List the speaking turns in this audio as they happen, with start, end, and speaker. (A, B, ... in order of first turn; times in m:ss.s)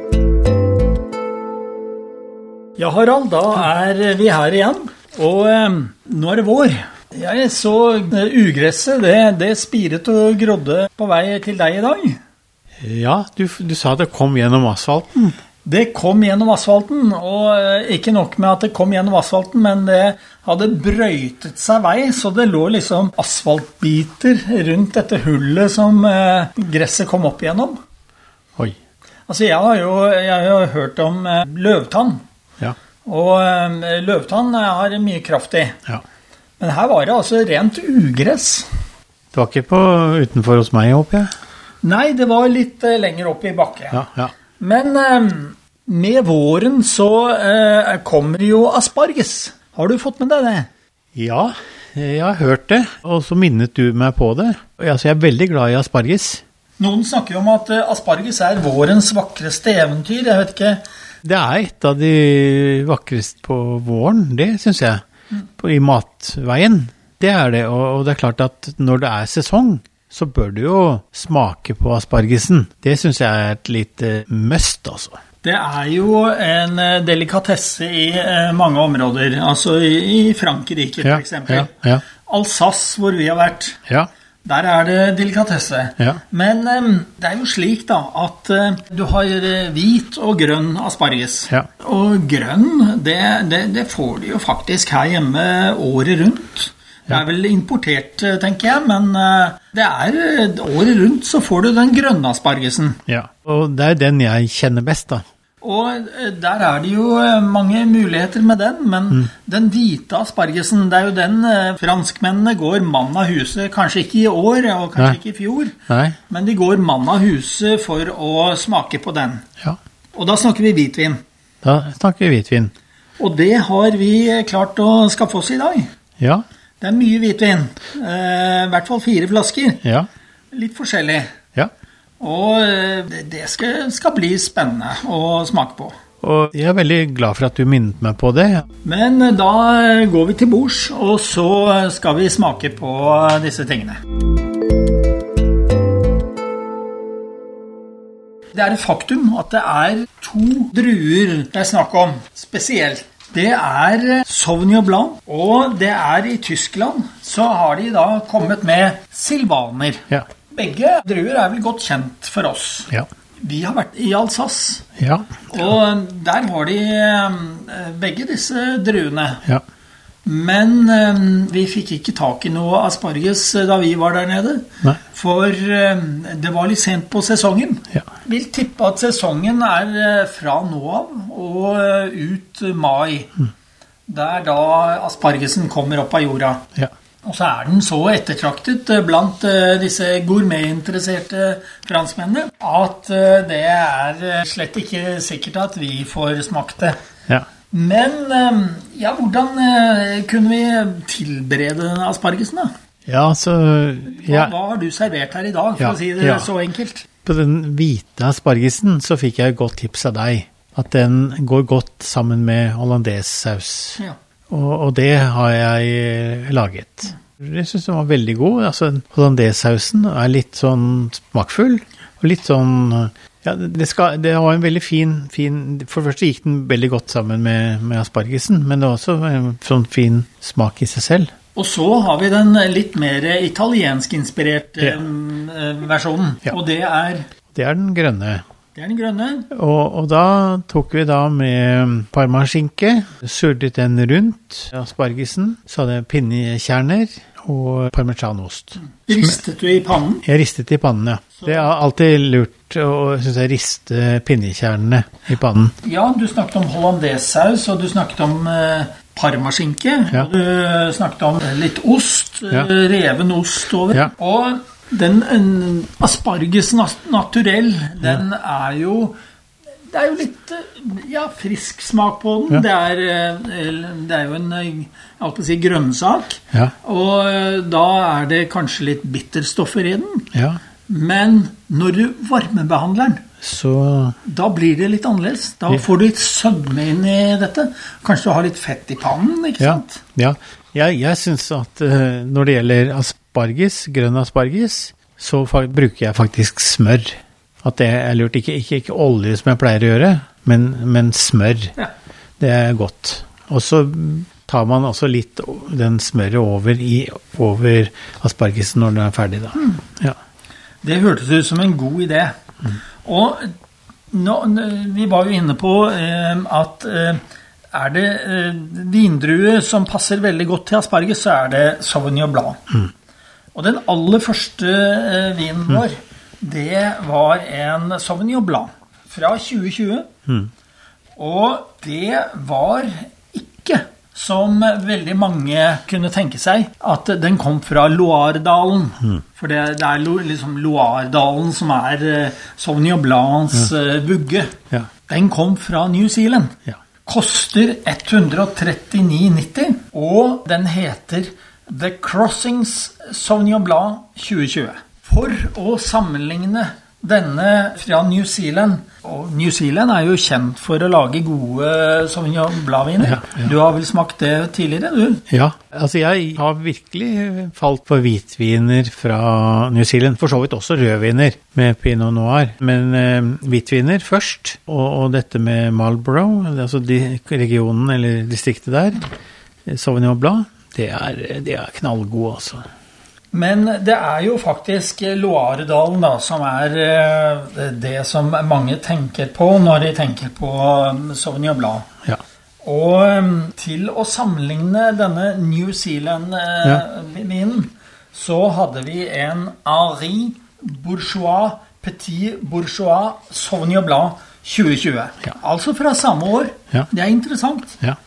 0:02.8-0:12.2 A
0:12.8-0:15.4 B
0:15.6-0:27.8 A
0:29.3-0:32.2 A
0:33.0-0:35.8 A
0:36.6-0:38.7 A
0:39.3-0:41.3 B
0:41.8-0:44.0 A
0:43.9-0:44.3 B
0:44.6-0:50.7 A
0:51.1-0:56.4 B
0:56.8-1:00.8 A
1:01.2-1:05.0 B
1:05.6-1:15.2 B
1:15.4-1:23.8 A
1:21.0-1:22.0 B
1:24.4-1:43.0 A
1:43.1-1:45.2 B
1:45.6-1:55.8 A
1:55.9-1:56.2 B
1:56.3-1:59.4 A
2:00.1-2:01.2 A
2:01.6-2:02.7 B
2:03.2-2:05.9 A
2:06.2-2:06.4 B
2:06.8-2:09.8 A
2:10.5-2:11.3 A
2:12.2-2:15.9 A
2:16.2-2:18.6 B
2:18.8-2:24.0 A
2:28.5-2:44.9 A
2:45.0-2:45.4 B
2:45.5-2:49.4 A
2:50.2-3:03.3 A
3:04.1-3:06.6 A
3:07.2-3:17.0 A
3:17.7-3:22.7 A
3:23.1-3:24.5 B
3:24.1-3:27.1 A
3:25.8-3:26.5 B
3:27.2-3:51.3 B
3:51.5-3:57.3 A
3:57.5-3:58.4 B
3:58.7-3:59.5 A
3:59.5-4:09.4 B
4:09.0-4:10.2 A
4:10.2-4:15.7 B
4:11.4-4:11.7 A
4:15.8-4:29.2 A
4:29.9-4:40.3 A
4:40.3-4:40.6 B
4:40.9-4:43.2 A
4:43.4-4:44.2 B
4:44.2-4:50.0 A
4:49.6-5:01.7 B
5:02.4-5:10.2 B
5:10.8-5:12.3 A
5:13.0-5:13.5 A
5:14.1-5:17.2 A
5:17.7-5:22.8 A
5:23.5-5:30.1 A
5:31.2-5:44.6 A
5:45.1-6:05.2 A
6:03.0-6:03.5 B
6:05.3-6:19.0 B
6:19.7-6:22.6 B
6:23.3-6:31.9 A
6:32.6-6:47.8 A